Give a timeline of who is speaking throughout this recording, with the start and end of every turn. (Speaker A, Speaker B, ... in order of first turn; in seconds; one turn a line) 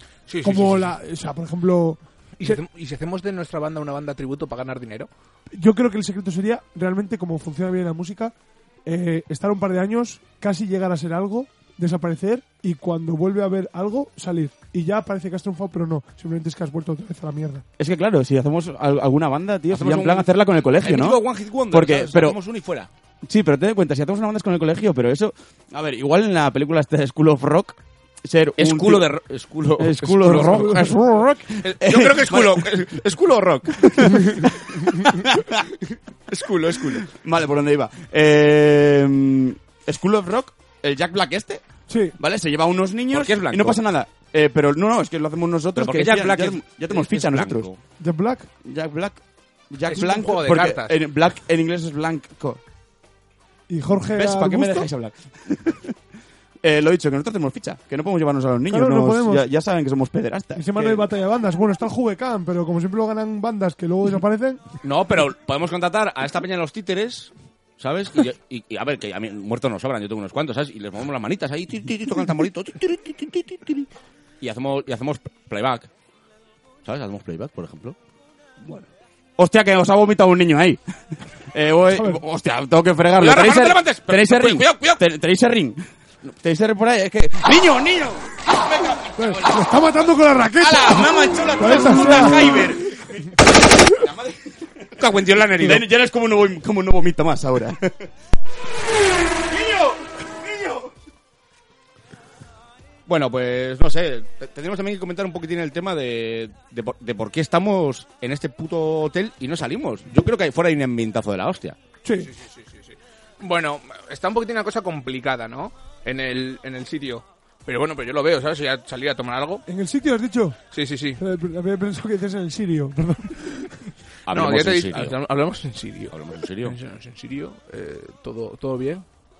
Speaker A: 0.3-0.9
Speaker B: 0.4-2.5
Speaker A: 2.4-5.1
Speaker B: 5.5-8.3
Speaker B: 8.8-17.6
Speaker C: 17.8-21.2
Speaker D: 19.7-20.3
Speaker D: 20.8-22.9
Speaker C: 21.7-22.4
Speaker C: 23.2-29.1
Speaker D: 28.6-35.3
Speaker C: 29.8-32.7
Speaker C: 33.8-35.7
Speaker D: 36.3-37.0
Speaker C: 36.9-41.6
Speaker B: 41.9-42.2
Speaker C: 42.2-47.7
Speaker D: 43.1-43.8
Speaker D: 45.7-47.8
Speaker B: 48.0-48.5
Speaker C: 48.6-52.6
Speaker A: 49.9-51.0
Speaker B: 53.7-54.9
Speaker C: 54.1-55.9
Speaker C: 56.6-61.1
Speaker B: 58.7-59.4
Speaker B: 60.5-64.6
Speaker D: 64.8-73.9
Speaker D: 74.4-75.9
Speaker D: 76.8-78.0
Speaker B: 78.6-78.9
Speaker C: 79.4-80.8
Speaker C: 81.5-90.0
Speaker B: 81.9-82.2
Speaker D: 83.2-85.0
Speaker B: 89.2-92.5
Speaker C: 90.6-94.9
Speaker D: 90.9-92.1
Speaker D: 95.0-95.8
Speaker C: 95.5-98.1
Speaker C: 99.5-100.9
Speaker D: 103.1-111.8
Speaker B: 112.0-112.3
Speaker A: 112.2-119.6
Speaker B: 119.7-120.6
Speaker A: 120.7-121.2
Speaker B: 121.2-123.9
Speaker D: 124.3-125.2
Speaker A: 124.3-129.0
Speaker D: 126.1-126.8